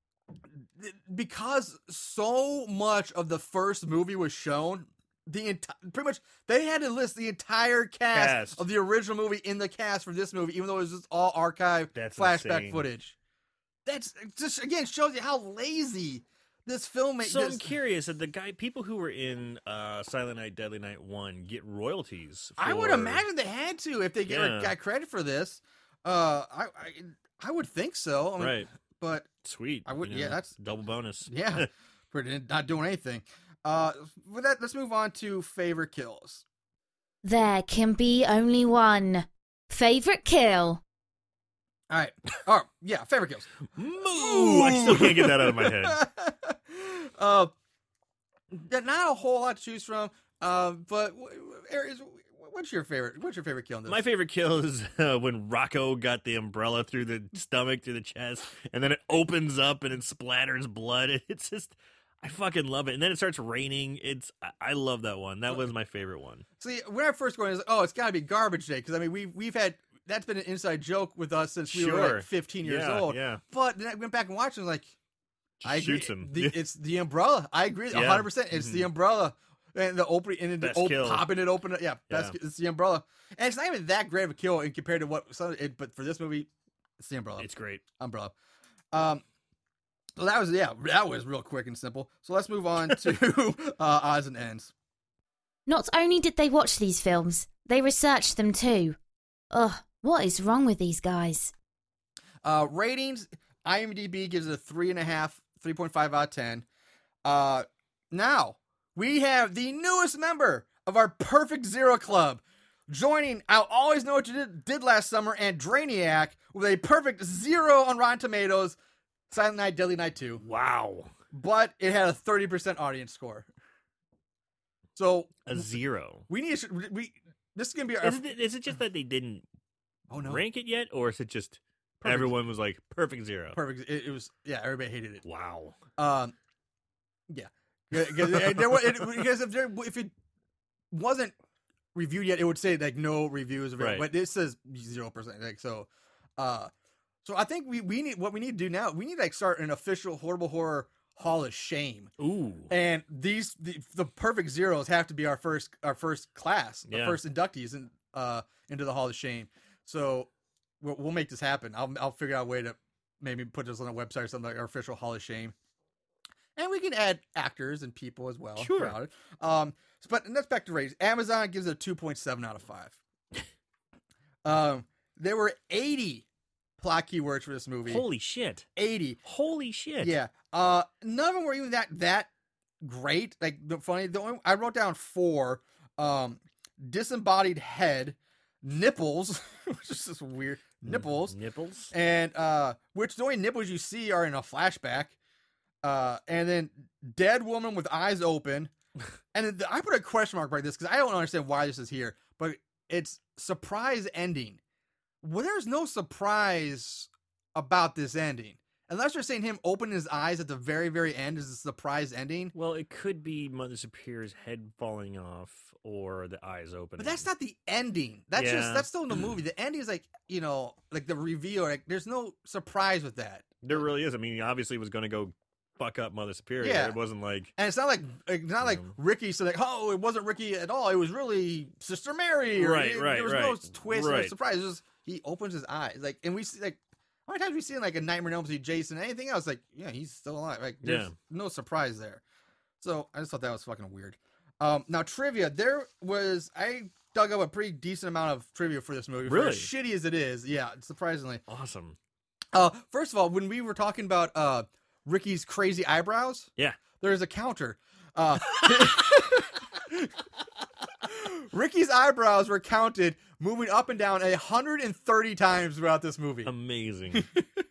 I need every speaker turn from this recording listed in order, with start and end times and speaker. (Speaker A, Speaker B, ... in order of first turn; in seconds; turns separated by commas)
Speaker A: 0.8-13.2, Speaker B: 8.1-8.6, Speaker B: 11.9-12.8, Speaker A: 13.9-17.6, Speaker B: 17.2-23.2, Speaker A: 22.6-29.3, Speaker B: 24.3-24.7, Speaker B: 28.4-28.7, Speaker B: 29.4-31.7, Speaker A: 29.9-30.5, Speaker A: 31.3-36.4, Speaker C: 37.2-40.8, Speaker A: 41.9-43.5, Speaker B: 43.8-46.0, Speaker A: 44.1-47.5, Speaker A: 48.5-54.0, Speaker B: 53.9-66.5, Speaker A: 66.6-74.9, Speaker B: 71.7-73.4, Speaker B: 75.6-76.6, Speaker A: 75.7-87.5, Speaker B: 77.9-78.9, Speaker B: 80.6-81.3, Speaker B: 82.1-82.3, Speaker B: 87.4-87.8, Speaker A: 88.0-88.3, Speaker A: 88.9-89.2, Speaker A: 90.2-94.7, Speaker C: 95.7-99.0, Speaker C: 99.5-101.5, Speaker A: 102.4-106.7, Speaker A: 107.2-118.8, Speaker A: 119.3-120.4, Speaker B: 120.4-121.1, Speaker A: 121.3-123.5, Speaker A: 125.0-125.7, Speaker B: 125.5-126.3, Speaker A: 126.3-128.2, Speaker B: 128.0-129.4, Speaker A: 130.1-130.4, Speaker B: 130.2-133.6, Speaker A: 132.0-132.3, Speaker A: 133.5-135.2, Speaker B: 135.2-135.8, Speaker A: 136.0-136.3, Speaker A: 137.3-140.1, Speaker A: 140.9-141.3, Speaker A: 141.9-146.7, Speaker B: 143.8-144.1, Speaker A: 147.2-152.1, Speaker B: 152.2-152.7, Speaker A: 152.7-160.3, Speaker B: 156.9-157.2, Speaker A: 160.8-165.6, Speaker A: 166.6-173.0, Speaker B: 168.6-169.0, Speaker A: 174.4-176.3, Speaker A: 176.8-178.1, Speaker B: 177.9-178.7, Speaker A: 178.8-179.2, Speaker B: 179.2-180.2, Speaker A: 180.0-182.3, Speaker A: 182.8-191.4, Speaker B: 190.9-191.9, Speaker A: 191.9-195.2, Speaker A: 195.8-198.7, Speaker A: 199.3-204.6, Speaker A: 205.2-212.5, Speaker B: 212.6-217.2, Speaker A: 217.0-223.8, Speaker B: 218.3-218.9, Speaker B: 223.6-227.5, Speaker A: 226.6-227.0, Speaker A: 227.6-242.2, Speaker B: 228.6-228.9, Speaker B: 232.6-234.3, Speaker B: 240.8-241.1, Speaker A: 242.8-251.4, Speaker B: 249.2-249.7, Speaker B: 251.5-252.0, Speaker A: 252.5-256.5, Speaker A: 257.0-260.1, Speaker B: 258.5-258.8, Speaker A: 261.0-266.5, Speaker B: 266.4-267.3, Speaker A: 267.1-267.5